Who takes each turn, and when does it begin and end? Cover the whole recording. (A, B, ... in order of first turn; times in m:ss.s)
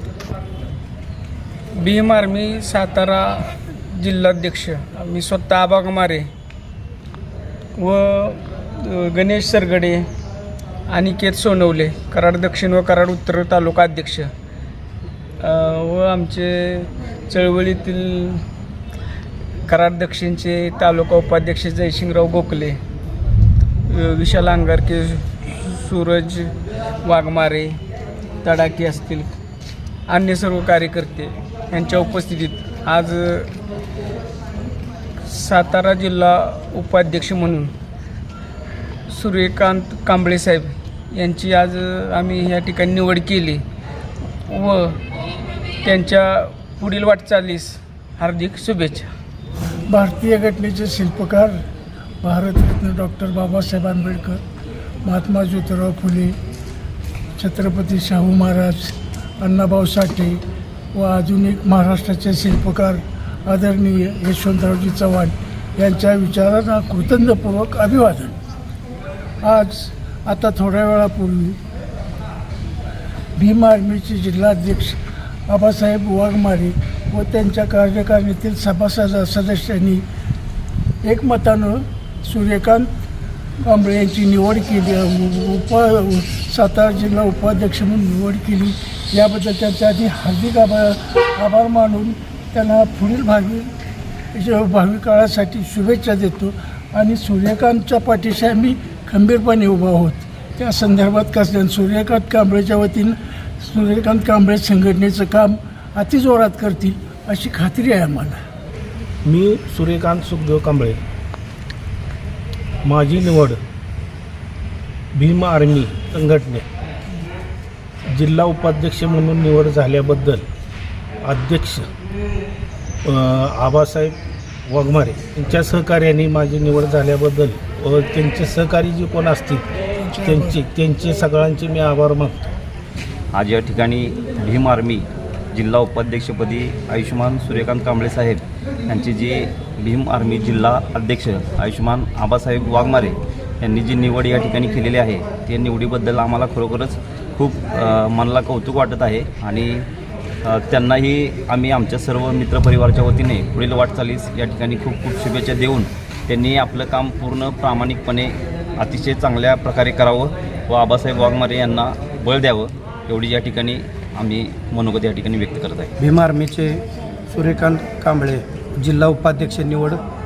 0:01.8-0:06.3 A
0:07.8-0:10.1 A
0:10.9-0:14.3 A
0:15.4-0:18.4 A
0:19.7-0:22.8 A
0:23.9-0:26.5 A
0:27.0-0:27.8 A
0:28.4-0:29.3 A
0:30.1-0:33.5 A
0:35.2-0:37.7 A
0:39.1-0:43.6 A
0:44.4-0:45.0 A
0:45.8-0:49.1 A
0:49.9-0:51.6 B
0:52.2-0:54.4 B
0:55.0-0:56.4 B
0:57.4-1:00.4 B
1:00.9-1:08.4 B
1:09.4-1:11.6 B
1:13.4-1:20.0 B
1:21.0-1:22.9 B
1:23.6-1:33.7 B
1:34.3-1:48.4 B
1:49.2-1:51.0 C
1:52.8-1:53.6 C
1:55.1-1:56.6 C
1:58.1-2:00.4 C
2:01.2-2:01.9 C
2:03.0-2:09.6 C
2:10.0-2:10.6 B
2:10.2-2:12.5 C
2:13.3-2:29.8 D
2:30.4-2:45.9 D
2:46.0-2:50.0 E